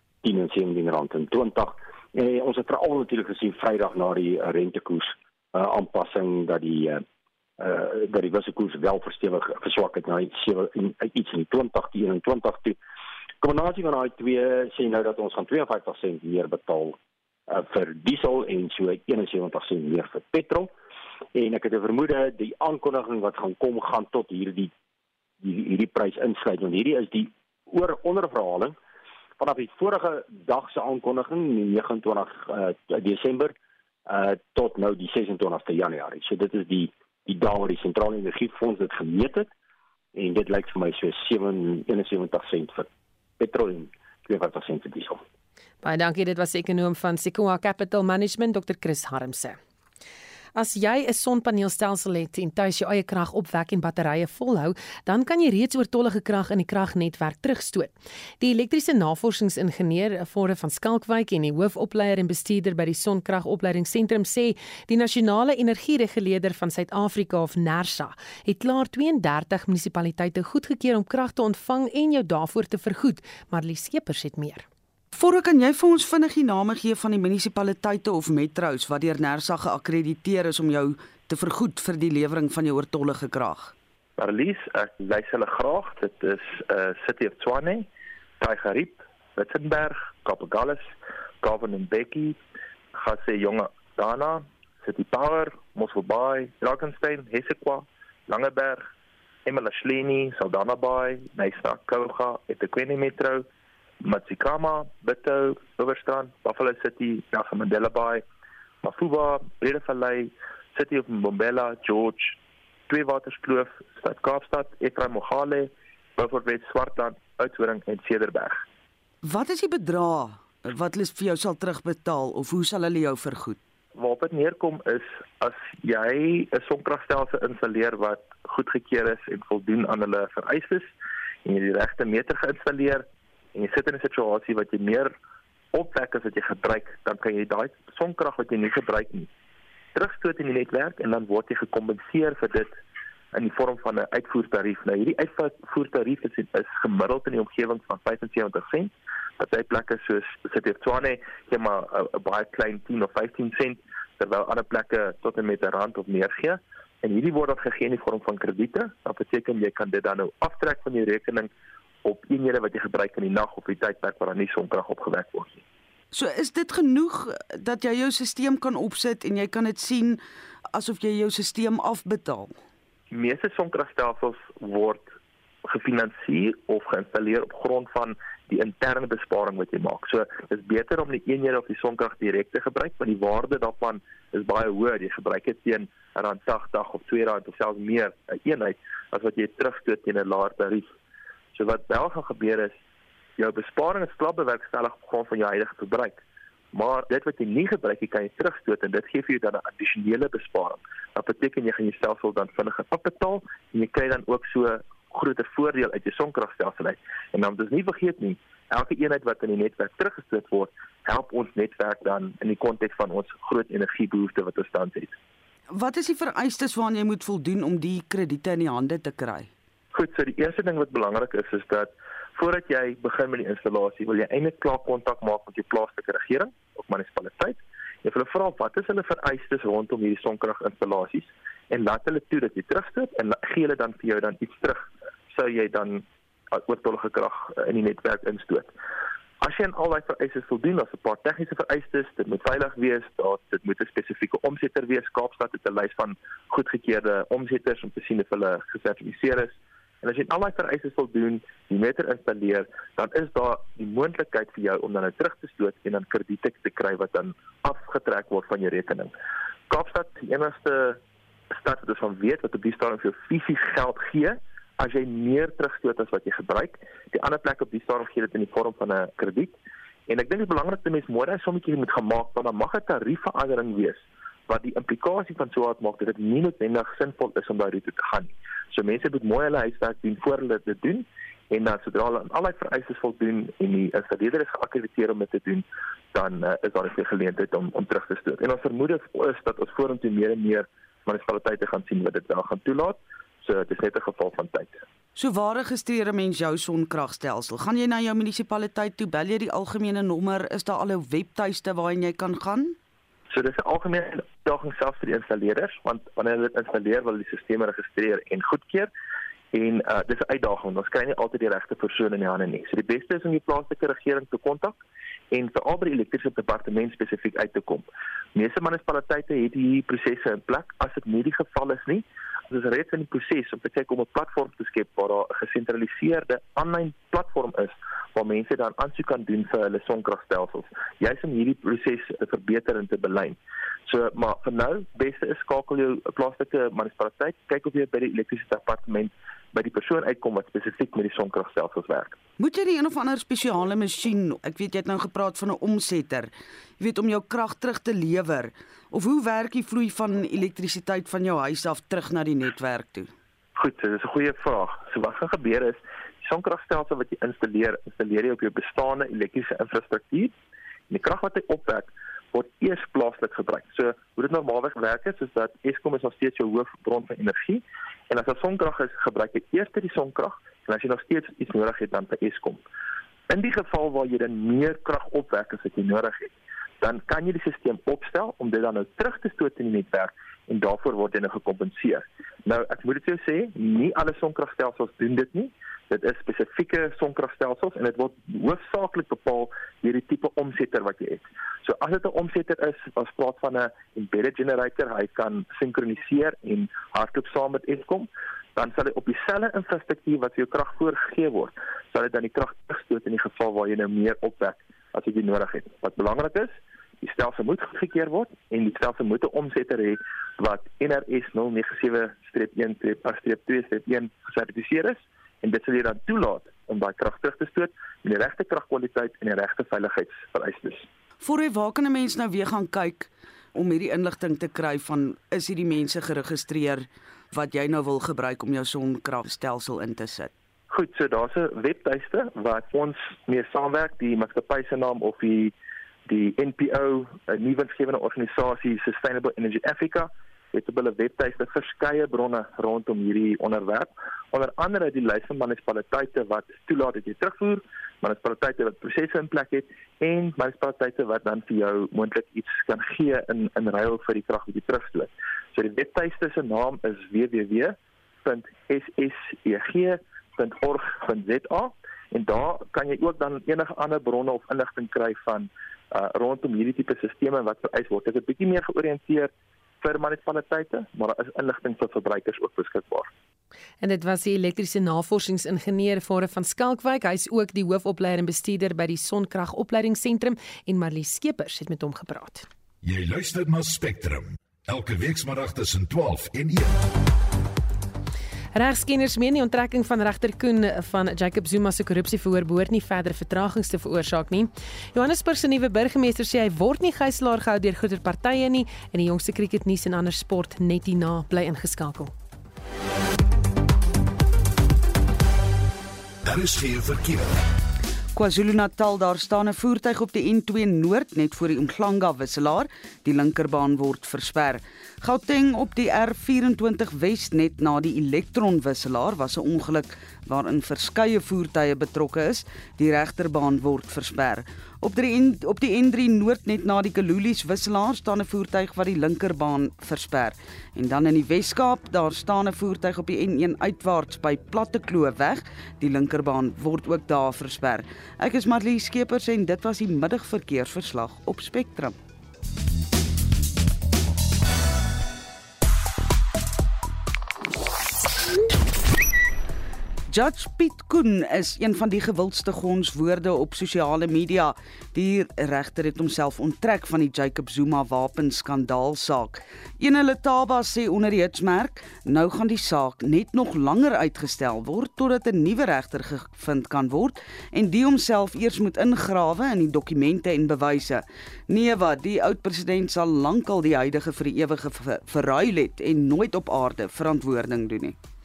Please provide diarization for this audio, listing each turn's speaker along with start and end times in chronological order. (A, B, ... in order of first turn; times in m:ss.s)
0:00.3-0:07.0 A
0:07.6-0:12.7 A
0:13.4-0:17.0 A
0:17.5-0:20.7 A
0:21.4-0:24.7 A
0:25.4-0:28.7 A
0:29.4-0:33.5 A
0:34.1-0:39.4 A
0:40.2-0:42.8 A
0:43.4-0:45.2 A
0:45.8-0:49.6 B
0:50.5-1:14.6 B
1:15.1-1:23.7 C
1:24.2-1:27.9 D
1:28.4-1:32.4 D
1:32.9-1:38.8 D
1:39.4-1:43.4 D
1:44.0-1:48.2 D
1:48.8-1:52.4 D
1:52.9-1:58.6 D
1:59.2-2:03.6 C
2:03.9-2:10.9 D
2:11.4-2:15.1 D
2:15.7-2:19.3 D
2:19.9-2:22.8 D
2:23.3-2:41.5 D
2:42.0-2:45.6 D
2:46.1-2:50.2 C
2:50.7-2:52.6 C
2:53.1-2:55.1 D
2:55.6-3:10.9 D
3:11.5-3:12.8 D
3:13.4-3:16.2 D
3:16.7-3:35.1 D
3:35.7-3:39.5 C
3:39.9-3:58.7 D
3:59.4-4:19.1 D
4:19.7-4:21.0 D
4:21.6-4:29.6 D
4:30.1-4:54.8 D
4:55.1-5:02.8 C
5:03.3-5:08.9 D
5:09.5-5:14.8 D
5:15.3-5:42.2 D
5:42.4-5:53.1 C
5:53.6-6:00.3 D
6:00.9-6:12.6 D
6:13.3-7:00.9 D
7:01.2-7:10.3 C
7:10.7-7:15.5 D
7:16.1-7:53.1 D
7:53.8-8:02.4 B
8:02.8-8:06.8 E
8:08.5-8:22.1 B
8:26.2-8:27.4 E
8:28.1-9:02.0 C
9:10.1-9:38.0 C